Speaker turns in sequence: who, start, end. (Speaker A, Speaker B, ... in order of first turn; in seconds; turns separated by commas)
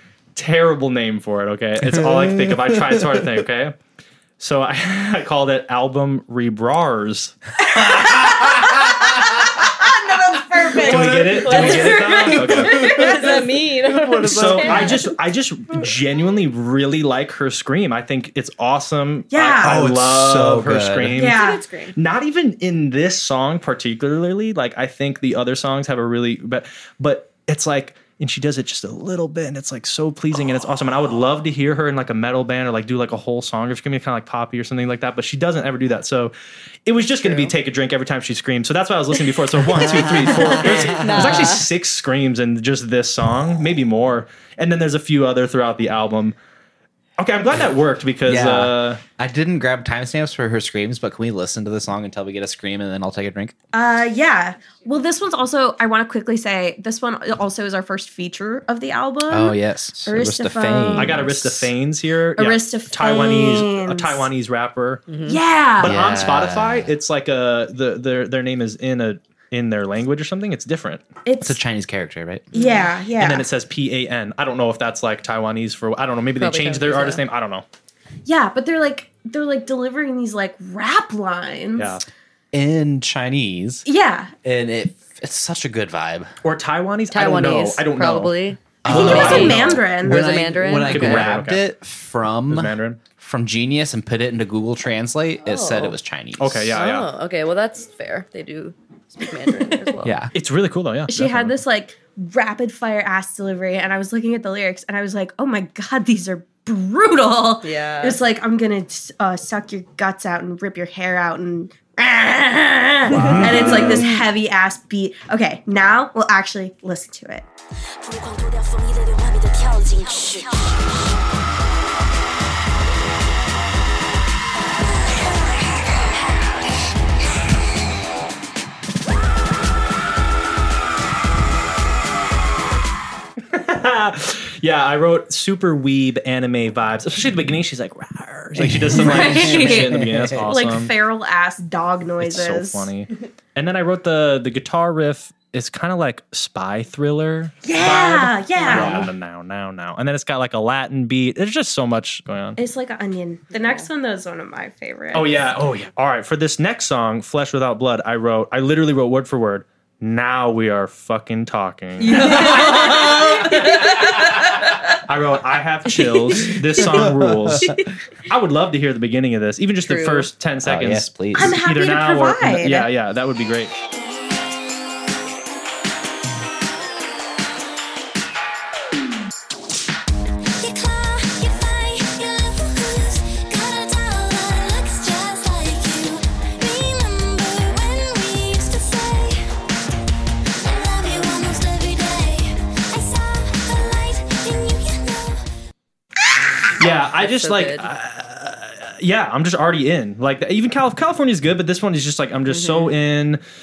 Speaker A: 0.3-3.7, Speaker B: 1.8-3.3, Speaker A: 4.4-7.3, Speaker C: 7.8-13.3, Speaker A: 10.7-13.2, Speaker D: 10.7-15.0, Speaker B: 11.0-11.2, Speaker B: 12.6-13.2, Speaker B: 13.8-14.9, Speaker A: 14.2-36.3, Speaker C: 19.3-19.8, Speaker B: 19.6-21.2, Speaker C: 21.1-21.6, Speaker D: 21.2-21.9, Speaker A: 36.9-46.4, Speaker D: 37.2-37.5, Speaker D: 39.8-41.7, Speaker A: 47.2-49.0, Speaker B: 48.2-53.5, Speaker C: 53.7-61.2, Speaker B: 59.3-61.7, Speaker A: 61.0-65.1, Speaker C: 62.4-64.3, Speaker D: 65.1-65.4, Speaker C: 65.2-66.0, Speaker A: 65.8-71.0, Speaker B: 65.8-66.9, Speaker C: 71.2-71.6, Speaker B: 71.4-72.5, Speaker D: 72.5-72.9, Speaker C: 72.5-73.5, Speaker A: 73.2-77.6, Speaker D: 76.4-77.2, Speaker C: 78.2-82.0, Speaker A: 81.8-82.0, Speaker B: 82.5-83.9, Speaker C: 83.8-84.3, Speaker B: 84.4-86.3, Speaker A: 86.4-89.8, Speaker D: 87.1-91.3, Speaker B: 88.8-96.8, Speaker C: 88.8-90.3, Speaker A: 90.8-91.7, Speaker A: 92.5-93.0, Speaker D: 95.4-95.9, Speaker A: 96.4-97.1, Speaker D: 96.7-100.2, Speaker B: 100.0-100.3, Speaker A: 100.3-101.6, Speaker C: 101.1-117.5, Speaker D: 107.6-108.2, Speaker B: 113.1-114.1, Speaker A: 113.2-114.0, Speaker E: 118.0-120.9, Speaker E: 125.1-126.7, Speaker A: 133.5-140.9, Speaker B: 138.6-140.5, Speaker C: 138.9-142.9, Speaker A: 142.2-152.6, Speaker C: 147.6-149.1, Speaker B: 148.7-149.1, Speaker C: 152.6-155.3, Speaker D: 153.5-153.9, Speaker A: 155.1-163.8, Speaker C: 162.0-164.7, Speaker D: 162.1-164.0, Speaker A: 165.0-173.7, Speaker D: 166.0-167.0, Speaker B: 166.7-167.8, Speaker D: 169.8-170.3, Speaker B: 170.6-171.6, Speaker C: 171.3-172.9, Speaker E: 180.6-189.4, Speaker E: 190.6-195.4, Speaker A: 196.7-203.4, Speaker D: 197.2-197.9, Speaker D: 202.5-202.9